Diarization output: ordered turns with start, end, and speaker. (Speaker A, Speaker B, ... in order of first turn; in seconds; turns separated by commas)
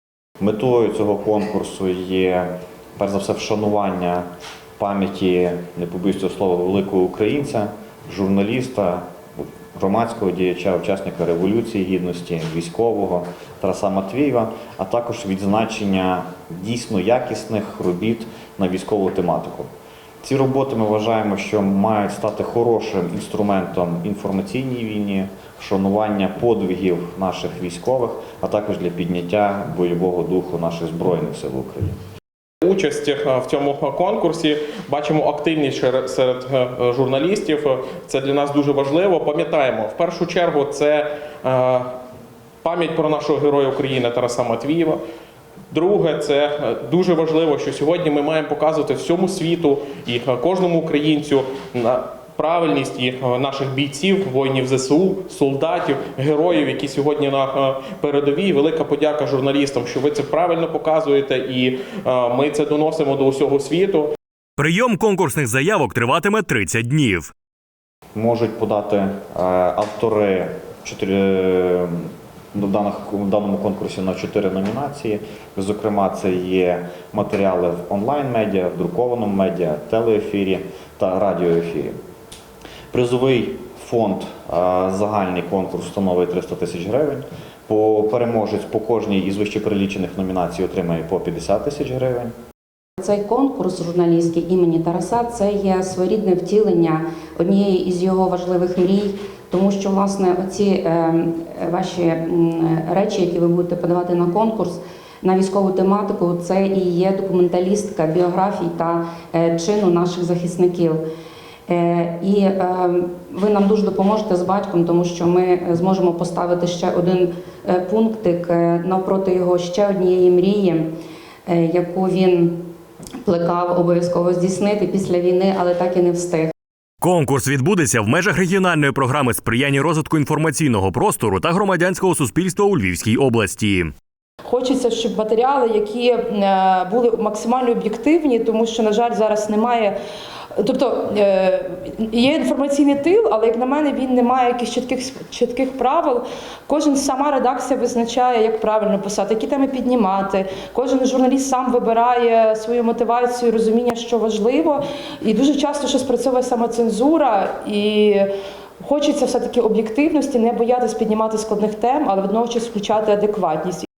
Speaker A: 0.4-4.2, Speaker A: 4.8-19.7, Speaker A: 20.2-32.0, Speaker B: 32.6-42.0, Speaker B: 42.6-45.0, Speaker B: 45.7-64.1, Speaker C: 64.6-67.3, Speaker A: 68.1-81.9, Speaker A: 82.9-92.3, Speaker D: 93.0-111.0, Speaker D: 111.7-120.8, Speaker D: 121.5-122.7, Speaker D: 123.2-126.5, Speaker C: 127.0-133.9, Speaker E: 134.5-139.9, Speaker E: 140.6-163.8